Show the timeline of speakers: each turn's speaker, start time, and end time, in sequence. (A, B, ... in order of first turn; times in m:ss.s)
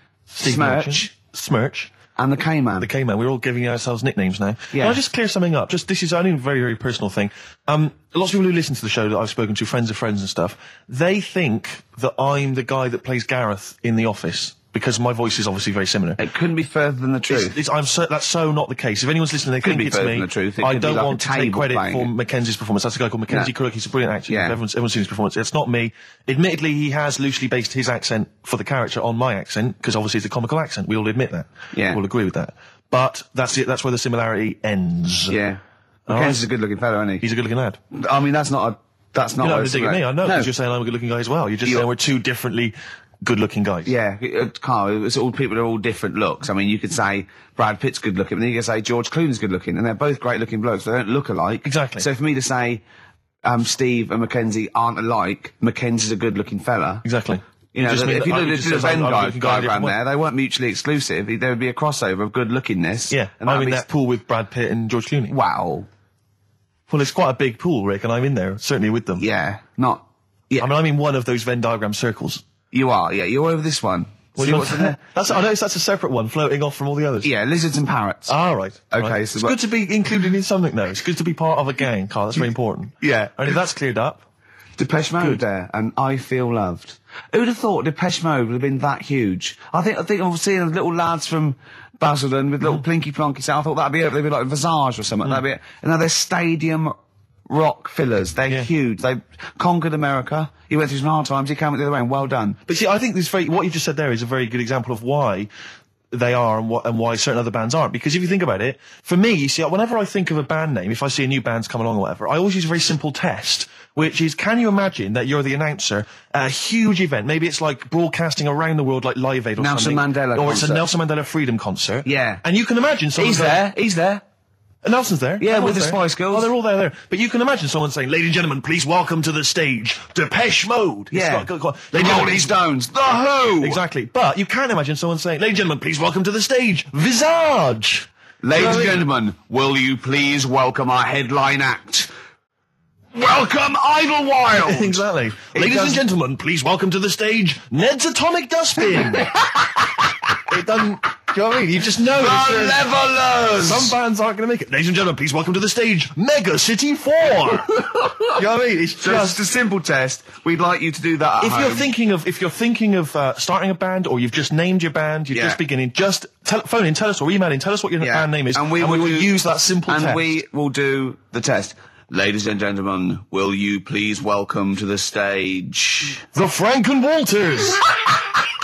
0:00.3-0:01.9 A
0:00.4-0:01.1 B
0:02.2-0:02.9 B
0:02.8-0:16.2 A
0:04.7-0:05.0 B
0:16.2-0:17.6 B
0:17.3-0:35.4 A
0:19.6-0:22.1 B
0:24.3-0:24.6 B
0:31.7-0:32.0 B
0:35.3-0:37.2 B
0:36.1-0:36.4 A
0:37.2-0:37.8 A
0:37.9-0:40.5 B
0:39.4-0:43.9 A
0:43.8-0:52.8 B
0:51.6-0:52.1 A
0:53.4-0:57.0 B
0:57.0-0:59.9 A
0:57.7-1:03.8 B
1:03.1-1:05.3 A
1:05.3-1:05.9 B
1:06.9-1:09.2 A
1:09.2-1:10.7 B
1:10.6-1:12.4 A
1:12.7-1:15.0 B
1:14.3-1:17.3 A
1:17.2-1:18.3 B
1:18.3-1:24.2 A
1:18.9-1:19.6 B
1:23.0-1:23.6 B
1:24.8-1:36.9 B
1:37.5-1:42.6 B
1:42.6-1:45.5 A
1:46.1-2:03.6 A
1:59.6-2:00.8 B
2:02.0-2:02.4 B
2:03.2-2:04.2 B
2:04.8-2:12.5 A
2:05.4-2:06.5 B
2:11.1-2:13.8 B
2:13.6-2:19.0 A
2:18.4-2:22.1 B
2:23.1-2:26.0 B
2:24.5-2:29.3 A
2:29.1-2:30.0 B
2:30.5-2:32.8 A
2:32.2-2:33.9 B
2:33.6-2:39.4 A
2:38.0-2:38.3 B
2:39.0-2:41.9 B
2:41.4-2:50.4 A
2:45.3-2:45.6 B
2:48.0-2:49.3 B
2:49.9-2:56.2 B
2:56.3-2:58.0 A